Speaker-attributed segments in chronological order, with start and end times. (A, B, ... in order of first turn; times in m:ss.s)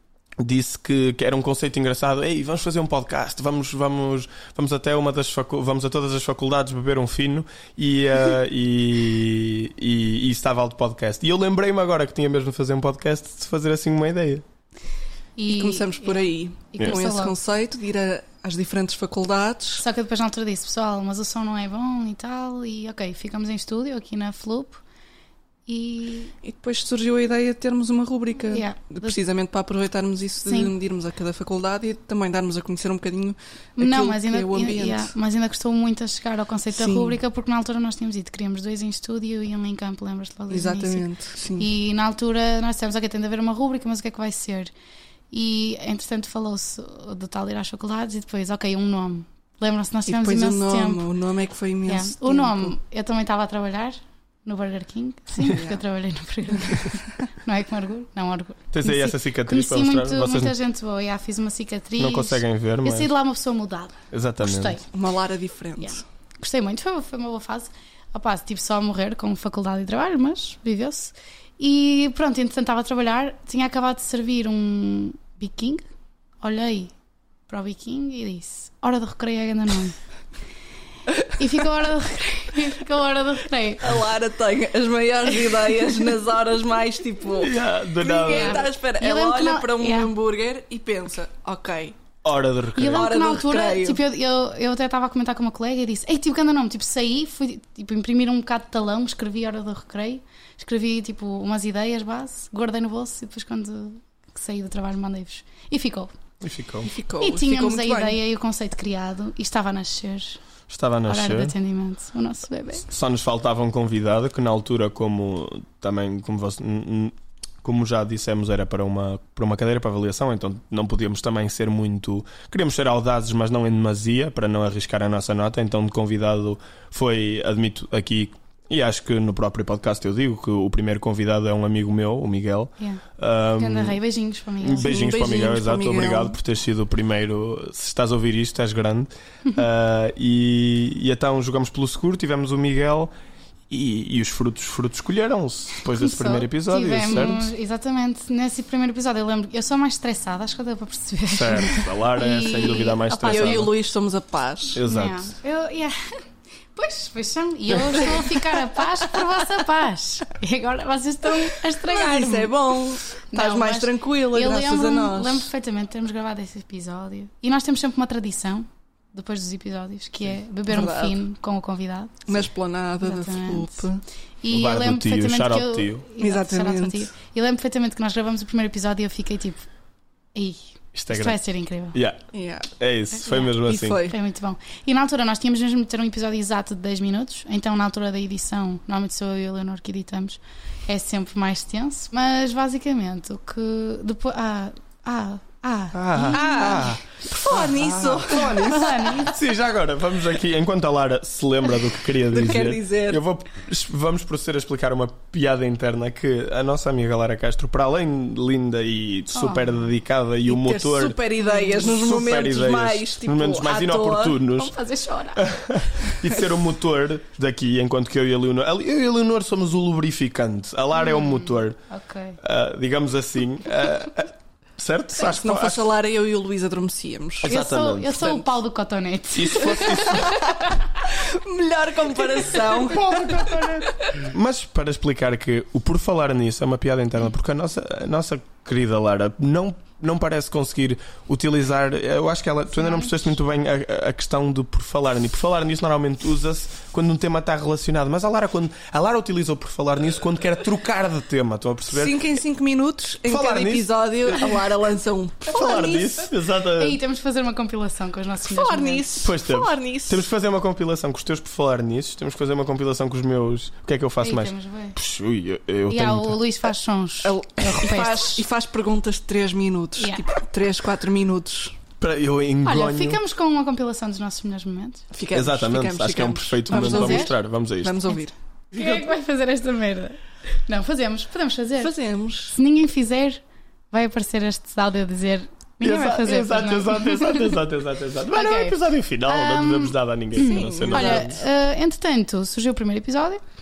0:00.4-0:14.4 A
0:15.4-0:17.4 B
0:15.5-0:19.8 C
0:19.8-0:24.8 B
0:25.7-0:26.3 B
0:26.4-0:35.2 C
0:28.5-0:29.2 B
0:30.4-0:30.7 B
0:33.8-0:41.1 B
0:36.7-0:37.2 C
0:40.5-0:41.7 C
0:41.6-0:44.7 B
0:45.3-0:51.1 B
0:50.1-0:52.7 C
0:51.9-1:04.8 B
0:55.5-0:55.8 C
0:58.7-1:00.6 A
1:02.0-1:03.1 A
1:04.1-1:04.8 A
1:04.9-1:06.0 C
1:05.8-1:15.8 B
1:16.4-1:16.9 B
1:17.5-1:20.0 B
1:21.3-1:24.0 B
1:23.8-1:32.0 C
1:27.4-1:28.6 A
1:28.3-1:30.1 B
1:32.2-1:33.1 A
1:32.8-1:46.1 B
1:32.9-1:34.0 C
1:46.4-1:46.9 A
1:46.8-1:48.2 C
1:47.2-1:50.4 B
1:50.7-1:51.6 A
1:51.1-1:52.9 B
1:52.9-2:14.0 A
2:12.8-2:13.0 B
2:13.6-2:15.0 B
2:14.6-2:23.1 A
2:14.8-2:16.4 C
2:23.7-2:27.5 A
2:26.0-2:33.7 B
2:31.3-2:33.7 A
2:33.3-2:34.8 C
2:34.7-2:35.3 A
2:34.9-2:36.0 B
2:36.7-2:42.5 B
2:41.8-2:45.5 C
2:43.3-2:52.4 B
2:50.7-2:51.2 C
2:52.3-2:54.0 C
2:53.0-2:53.9 B
2:54.4-2:59.7 B
2:54.5-2:56.1 A
2:56.2-2:57.1 C
3:00.3-3:02.0 B
3:00.9-3:01.4 A
3:01.9-3:02.2 A
3:02.3-3:02.7 C
3:02.7-3:04.0 A
3:03.4-3:04.2 C
3:04.0-3:17.0 B
3:15.9-3:34.8 A
3:16.3-3:19.2 C
3:18.4-3:19.4 B
3:22.2-3:23.2 C
3:29.3-3:29.7 B
3:30.4-3:34.4 C
3:31.5-3:31.9 B
3:34.5-3:35.5 B
3:35.4-3:41.8 A
3:41.0-3:42.4 B
3:42.4-3:45.9 A
3:45.2-3:47.6 C
3:47.4-3:48.4 A
3:47.4-3:50.8 B
3:49.4-3:50.4 A
3:51.0-3:54.2 C
3:52.9-4:12.2 A
4:11.9-4:16.3 C
4:13.2-4:14.6 A
4:15.5-4:17.0 A
4:16.8-4:19.1 B
4:18.4-4:20.3 C
4:19.2-4:26.4 A
4:24.2-4:25.0 B
4:25.9-4:28.4 B
4:27.2-4:31.8 C
4:30.0-4:30.2 B
4:32.0-4:33.2 A
4:32.6-4:35.0 B
4:35.1-4:38.3 C
4:35.3-4:38.1 A
4:36.7-4:37.3 B
4:38.7-4:41.9 B
4:41.8-4:42.6 C
4:42.5-4:47.6 B
4:45.8-4:51.4 A
4:48.3-4:53.4 B
4:50.4-4:51.4 C